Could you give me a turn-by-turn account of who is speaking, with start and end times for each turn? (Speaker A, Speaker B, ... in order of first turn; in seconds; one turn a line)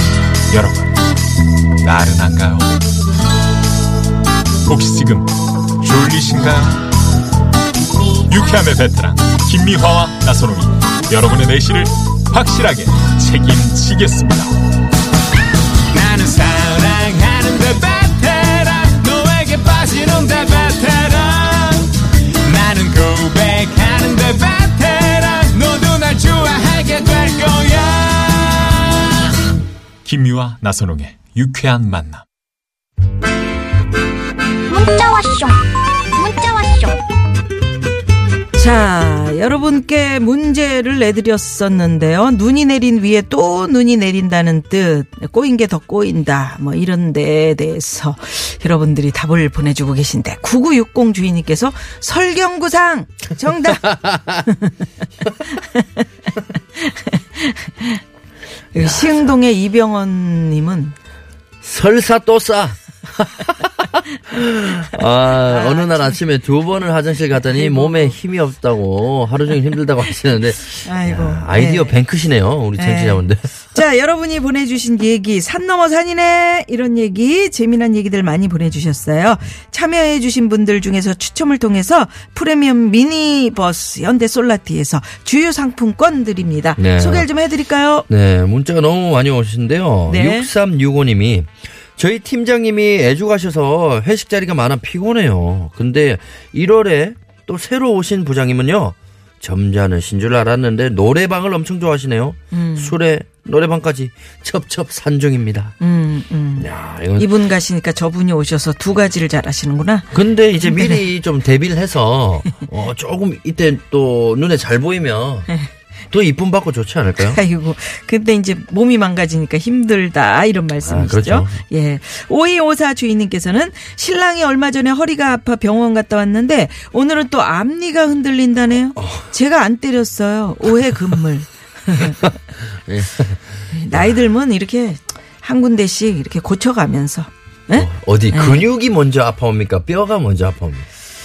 Speaker A: 0.5-0.9
Speaker A: 1.8-2.7
Speaker A: 4.7-5.3
Speaker A: 5.8-6.8
Speaker A: 8.3-14.6
Speaker B: 15.9-21.9
Speaker A: 20.8-21.2
Speaker B: 22.4-29.1
Speaker A: 22.5-23.1
Speaker A: 30.0-32.2
Speaker C: 34.7-37.0
Speaker D: 38.5-54.7
Speaker E: 53.7-54.4
Speaker D: 55.4-56.0
Speaker D: 56.8-58.0
Speaker D: 58.7-61.0
Speaker E: 58.7-59.3
Speaker E: 61.6-73.5
Speaker D: 65.3-66.2
Speaker D: 67.4-68.2
Speaker D: 70.7-72.0
Speaker D: 72.7-88.1
Speaker E: 86.8-87.3
Speaker E: 88.1-105.7
Speaker D: 90.0-90.5
Speaker D: 102.5-103.0
Speaker D: 105.8-111.0
Speaker E: 106.6-107.3
Speaker E: 110.1-115.5
Speaker E: 116.1-117.4
Speaker D: 117.2-132.3
Speaker E: 120.8-121.6
Speaker E: 129.0-129.2
Speaker E: 131.9-132.3
Speaker E: 132.8-134.2
Speaker D: 133.7-138.7
Speaker E: 137.7-140.9